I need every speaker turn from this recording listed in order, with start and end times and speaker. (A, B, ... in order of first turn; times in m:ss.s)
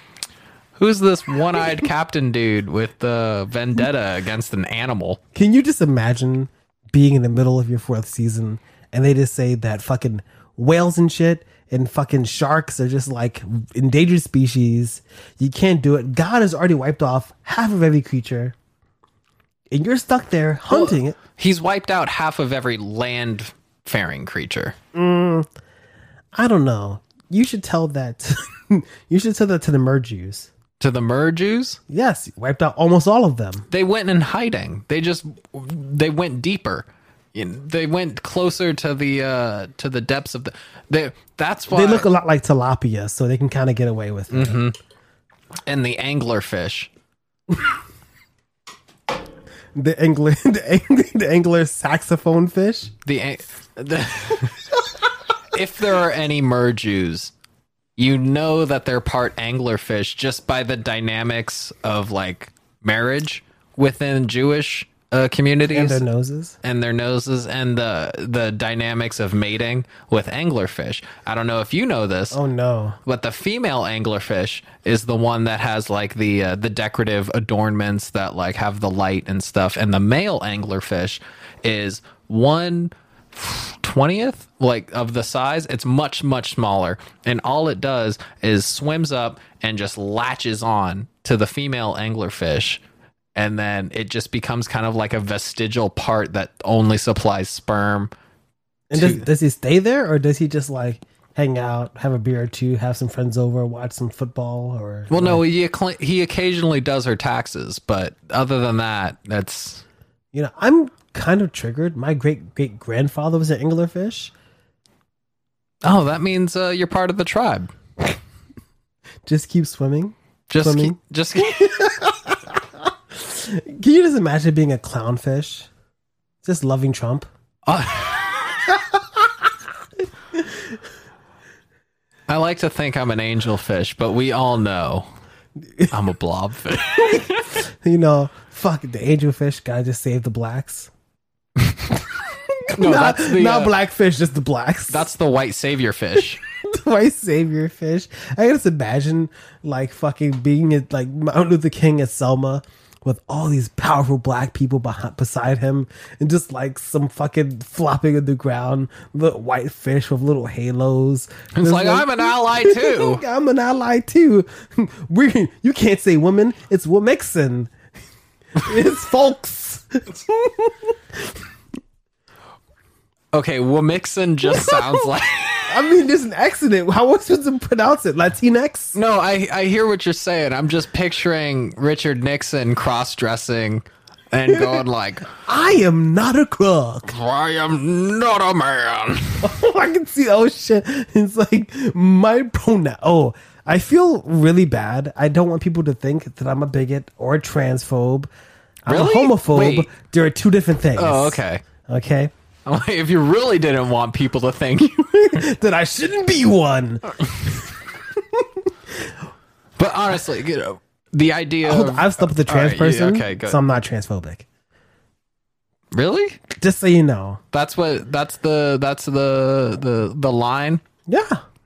0:00.8-0:05.2 A
0:05.4-0:18.6 B
0:19.7-0:21.2 B
0:20.7-0:24.8 A
0:24.9-0:25.5 B
0:26.4-0:30.5 B
0:30.8-0:31.8 A
0:31.9-0:33.7 B
0:33.7-0:42.1 A
0:41.7-0:44.6 B
0:44.3-0:44.8 A
0:45.7-0:46.9 A
0:49.8-0:52.9 B
0:53.0-0:54.8 A
0:55.5-0:57.3 A
0:58.0-1:06.0 A
1:05.7-1:06.6 B
1:06.6-1:12.4 A
1:12.3-1:13.0 B
1:13.1-1:32.8 A
1:33.4-1:38.1 A
1:38.9-1:45.4 B
1:38.9-1:39.2 A
1:45.1-1:49.8 A
1:50.3-1:54.3 B
1:55.8-1:57.7 A
1:59.3-2:05.7 B
2:00.5-2:02.0 A
2:06.4-2:07.3 B
2:07.6-2:08.7 A
2:08.7-2:09.3 B
2:10.3-2:10.8 B
2:12.3-2:15.1 A
2:15.9-2:17.6 A
2:17.0-2:20.9 B
2:22.6-2:25.1 B
2:22.7-2:23.7 A
2:24.9-2:26.4 A
2:26.5-2:47.7 B
2:41.5-2:43.2 A
2:48.6-2:50.9 B
2:53.3-2:55.9 A
2:54.6-2:54.9 B
2:55.7-2:59.0 B
2:59.0-3:05.3 A
3:04.5-3:04.8 B
3:05.4-3:07.1 B
3:07.1-3:09.5 A
3:09.4-3:18.3 B
3:18.8-3:22.3 B
3:18.9-3:19.9 A
3:21.0-3:21.6 A
3:22.7-3:25.4 A
3:25.0-3:29.1 B
3:29.8-3:33.6 A
3:31.6-3:34.5 B
3:35.9-3:36.4 A
3:36.5-3:37.4 B
3:37.5-3:40.8 A
3:41.1-3:41.4 B